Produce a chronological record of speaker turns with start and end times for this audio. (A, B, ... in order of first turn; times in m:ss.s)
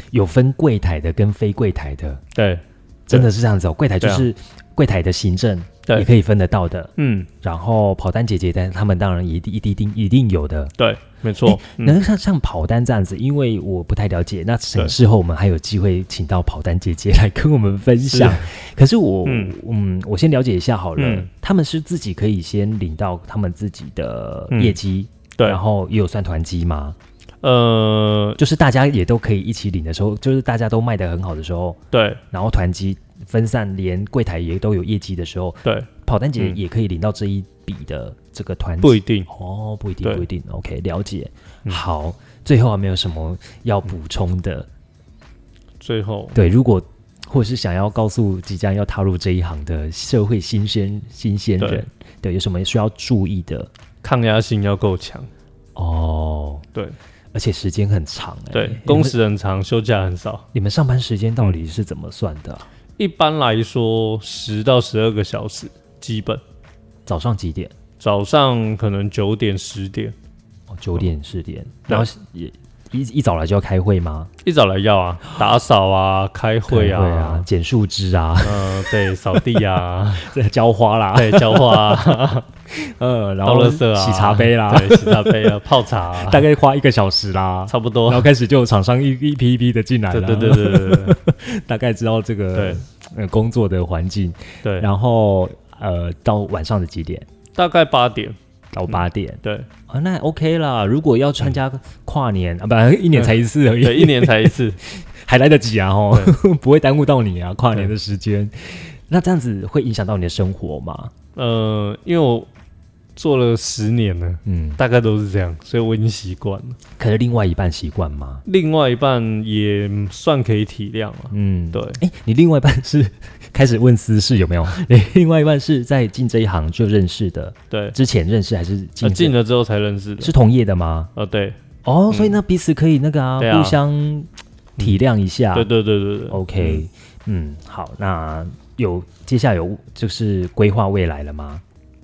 0:00.1-0:02.2 A
0:02.4-0:03.3 B
0:03.1-0:10.7 A
0:04.0-0:04.3 B
0:07.0-0:07.3 B
0:10.8-0:12.0 B
0:11.4-0:27.0 A
0:18.1-0:18.5 B
0:19.2-0:19.6 B
0:21.0-0:21.3 B
0:24.5-0:24.8 B
0:27.4-0:28.4 B
0:28.4-0:31.8 A
0:31.9-0:32.2 B
0:32.3-0:44.7 A
0:35.6-0:36.6 B
0:38.8-0:39.3 B
0:45.8-0:46.4 B
0:46.3-0:53.7 A
0:51.6-0:51.8 B
0:54.0-0:55.3 B
0:55.8-0:56.7 A
0:57.3-0:59.2 A
0:58.5-1:00.5 B
1:00.5-1:02.7 A
1:03.0-1:06.4 B
1:07.1-1:07.7 A
1:08.0-1:10.2 B
1:10.7-1:14.3 A
1:14.4-1:17.5 B
1:16.7-1:19.6 A
1:18.4-1:20.3 B
1:20.2-1:25.6 A
1:21.2-1:22.5 B
1:23.4-1:26.5 B
1:26.1-1:37.3 A
1:27.7-1:28.3 B
1:30.1-1:31.2 B
1:32.5-1:32.8 B
1:37.6-1:38.4 B
1:38.7-1:51.1 A
1:39.4-1:39.7 B
1:43.1-1:44.8 B
1:51.4-1:52.5 B
1:53.2-1:56.8 B
1:54.4-1:54.8 A
1:57.0-1:58.4 A
1:58.5-2:02.0 B
2:01.3-2:09.4 A
2:07.7-2:08.0 B
2:09.0-2:10.3 B
2:10.2-2:11.1 A
2:11.2-2:11.6 B
2:11.8-2:15.7 A
2:12.1-2:12.4 B
2:13.4-2:13.8 B
2:15.5-2:16.8 B
2:16.3-2:21.6 A